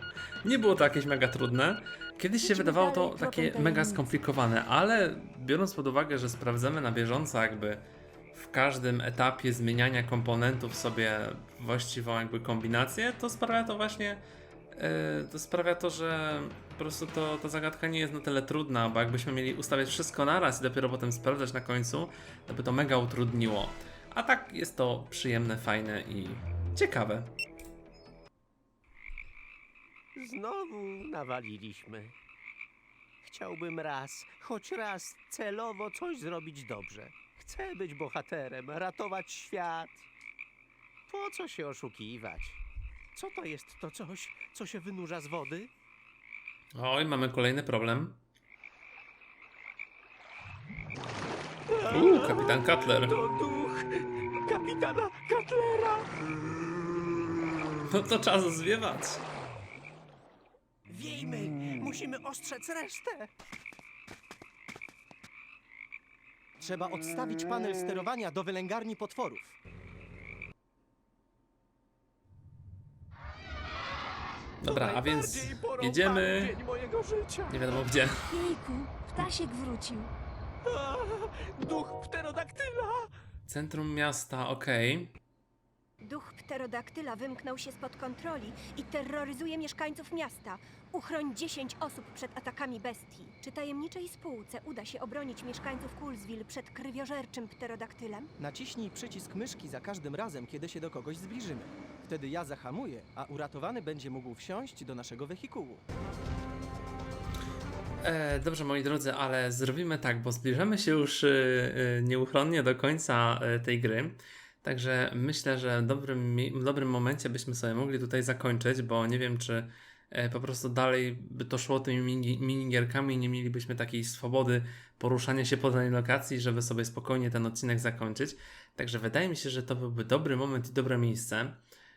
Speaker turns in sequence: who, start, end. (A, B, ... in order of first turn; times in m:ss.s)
0:00.4-0:14.2 A
0:02.4-0:04.1 B
0:14.7-0:27.4 A
0:30.2-0:32.2 C
0:33.2-0:40.1 C
0:41.1-0:42.6 C
0:43.2-0:45.7 C
0:46.8-0:48.2 A
0:51.7-0:56.1 C
0:51.9-0:53.2 A
0:57.9-0:59.2 A
1:00.9-1:03.3 C
1:06.6-1:09.6 D
1:14.6-1:16.6 A
1:14.6-1:17.8 C
1:17.5-1:18.3 A
1:18.3-1:20.1 B
1:20.6-1:23.1 C
1:23.5-1:25.1 A
1:26.0-1:38.3 E
1:38.4-1:45.8 D
1:48.0-2:11.6 A